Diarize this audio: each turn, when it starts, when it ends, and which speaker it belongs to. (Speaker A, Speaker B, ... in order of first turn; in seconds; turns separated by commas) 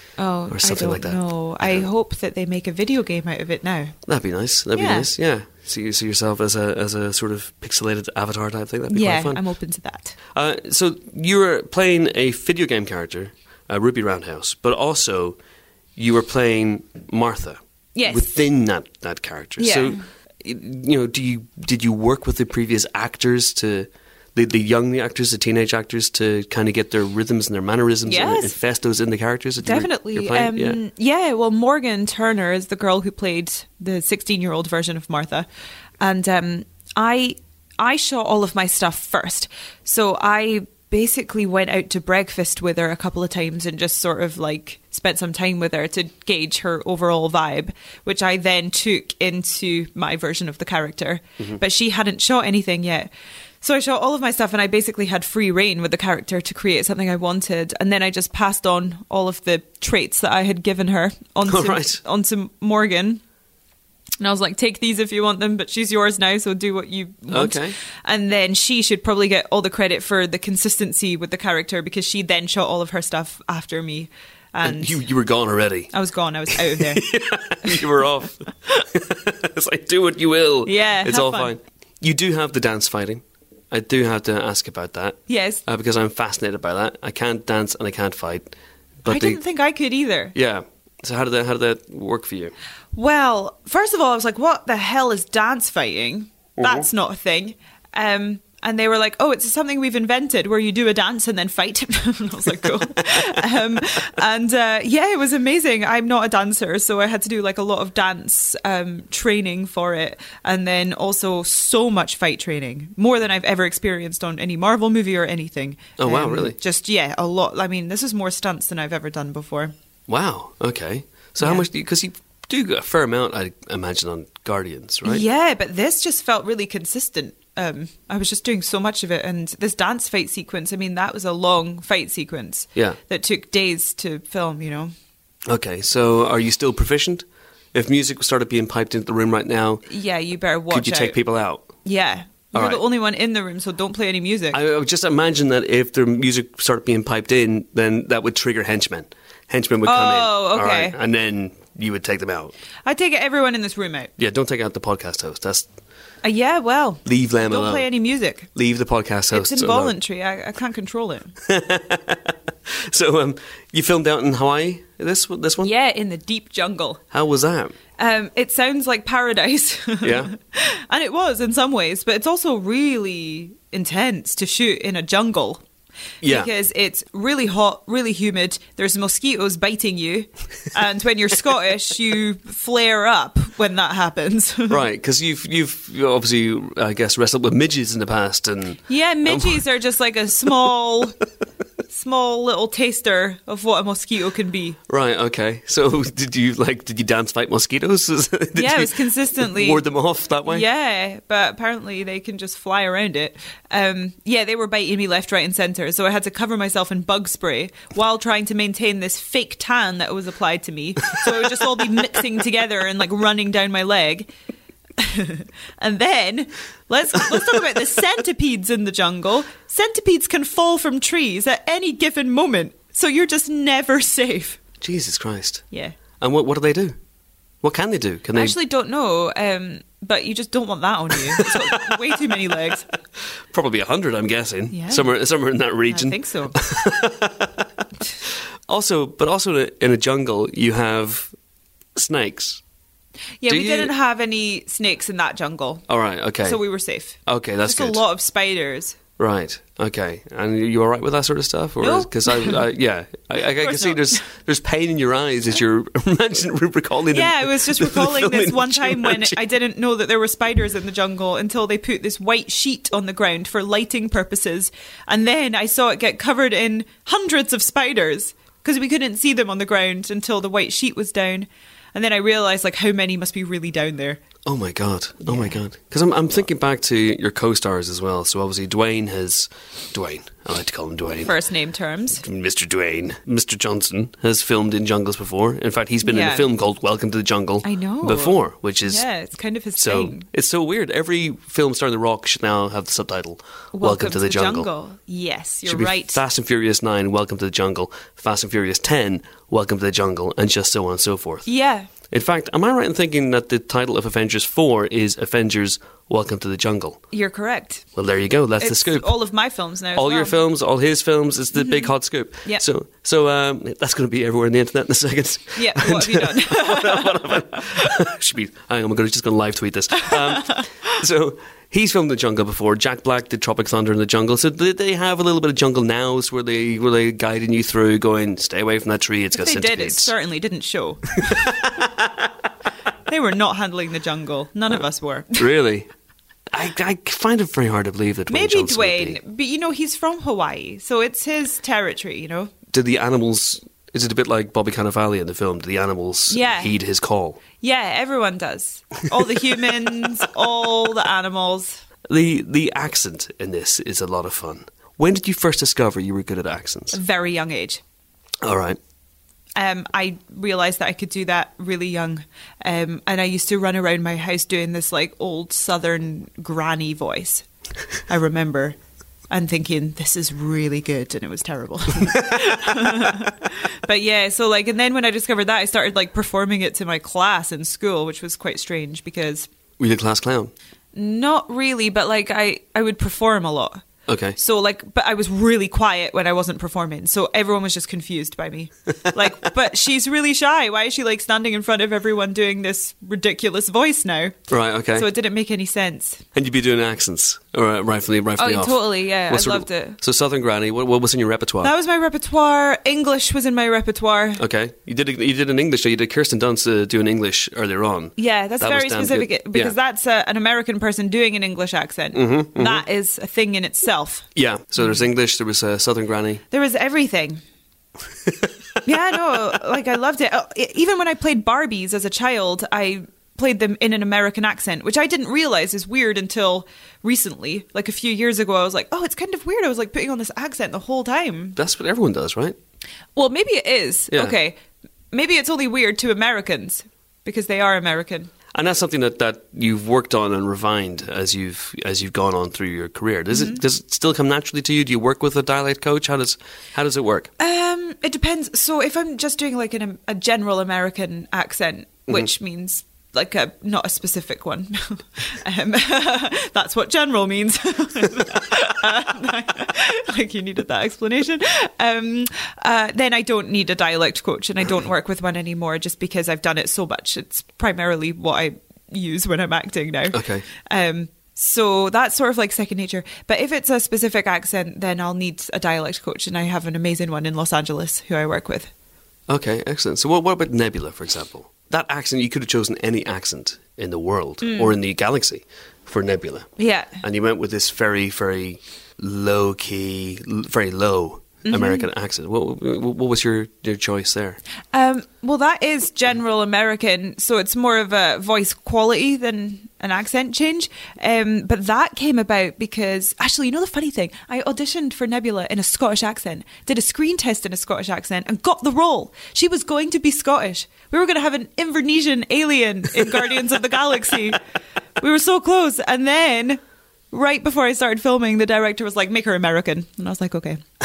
Speaker A: 0.2-4.0, Speaker B: 0.5-1.9, Speaker B: 4.1-9.4, Speaker A: 4.7-5.1, Speaker A: 8.9-10.2, Speaker B: 10.3-15.4, Speaker B: 16.0-30.8, Speaker A: 17.9-18.4, Speaker A: 19.6-20.0, Speaker A: 28.1-28.6, Speaker A: 29.6-35.5, Speaker A: 36.0-53.1, Speaker A: 53.6-63.2, Speaker B: 61.5-62.0, Speaker A: 64.2-75.0, Speaker B: 67.3-67.8, Speaker B: 74.6-75.9, Speaker A: 75.9-77.0, Speaker B: 76.5-88.5, Speaker A: 80.7-81.5, Speaker A: 85.3-85.6, Speaker B: 89.0-89.4, Speaker A: 89.1-90.3, Speaker B: 90.3-92.5, Speaker A: 92.9-119.7, Speaker B: 116.0-116.6, Speaker B: 120.1-125.2, Speaker A: 121.4-121.7, Speaker A: 125.0-134.9, Speaker B: 135.5-139.8, Speaker A: 139.9-141.2, Speaker B: 140.7-141.8, Speaker A: 141.8-144.6, Speaker B: 142.5-142.8, Speaker B: 144.5-152.5, Speaker A: 149.8-151.0, Speaker A: 152.8-154.1, Speaker B: 154.2-155.7, Speaker A: 156.2-158.5, Speaker B: 157.1-157.9, Speaker B: 158.6-159.9, Speaker A: 159.3-161.3, Speaker B: 161.5-162.3, Speaker B: 162.9-165.7, Speaker A: 165.6-167.0, Speaker B: 167.1-167.8, Speaker A: 168.0-175.6, Speaker B: 170.0-170.3, Speaker B: 176.2-176.5, Speaker A: 176.2-184.8, Speaker B: 184.7-189.6, Speaker A: 188.9-191.2, Speaker A: 191.9-194.8, Speaker B: 194.9-200.7, Speaker A: 198.6-199.8, Speaker A: 200.4-214.3, Speaker A: 215.0-224.6, Speaker B: 224.8-225.7, Speaker A: 225.7-226.0, Speaker B: 226.2-226.9, Speaker B: 227.6-228.5, Speaker A: 228.3-232.9, Speaker B: 231.3-232.0, Speaker B: 233.5-237.6, Speaker A: 234.7-235.2, Speaker A: 235.9-236.6, Speaker B: 238.7-241.3, Speaker B: 242.0-242.6, Speaker A: 243.4-249.0, Speaker B: 243.5-243.9, Speaker B: 245.9-246.6, Speaker B: 247.3-248.0, Speaker B: 249.2-259.4, Speaker A: 251.8-252.6, Speaker A: 253.6-254.2, Speaker A: 257.1-274.2, Speaker B: 274.5-281.3, Speaker A: 275.3-275.6, Speaker A: 281.2-282.2, Speaker B: 282.2-289.0, Speaker A: 286.0-286.5, Speaker A: 287.6-290.3, Speaker B: 289.8-294.7, Speaker A: 293.7-296.2, Speaker B: 295.7-301.5, Speaker A: 301.5-301.9, Speaker B: 302.1-307.0, Speaker A: 307.1-307.9, Speaker B: 308.0-309.1, Speaker A: 308.6-310.4, Speaker B: 309.9-330.1, Speaker A: 311.6-311.9, Speaker A: 315.6-317.3, Speaker A: 329.4-331.6, Speaker A: 333.1-335.5, Speaker B: 335.4-335.9, Speaker B: 336.6-339.2, Speaker A: 338.3-342.5, Speaker B: 342.7-347.4, Speaker A: 346.3-346.8, Speaker A: 347.5-351.8, Speaker B: 352.1-356.9, Speaker A: 356.9-357.8, Speaker B: 358.4-358.8, Speaker A: 359.6-367.4, Speaker A: 368.1-368.8, Speaker A: 369.3-379.5, Speaker B: 379.8-380.5, Speaker A: 380.9-383.8, Speaker B: 384.1-384.4, Speaker A: 384.4-396.2, Speaker B: 394.5-395.1, Speaker B: 396.4-401.7, Speaker A: 398.4-400.0, Speaker A: 401.6-404.4, Speaker B: 404.4-409.7, Speaker A: 408.2-414.3, Speaker B: 412.2-412.8, Speaker B: 414.4-416.4, Speaker A: 416.5-417.4, Speaker A: 418.9-431.6, Speaker B: 431.6-432.6, Speaker A: 433.2-434.6, Speaker A: 435.1-438.3, Speaker B: 438.6-447.3, Speaker A: 443.3-443.6, Speaker A: 447.4-478.7, Speaker B: 479.3-486.5, Speaker A: 484.4-484.8, Speaker A: 486.6-487.0, Speaker B: 487.1-494.4, Speaker A: 491.4-491.9, Speaker A: 494.7-514.4, Speaker A: 515.0-520.6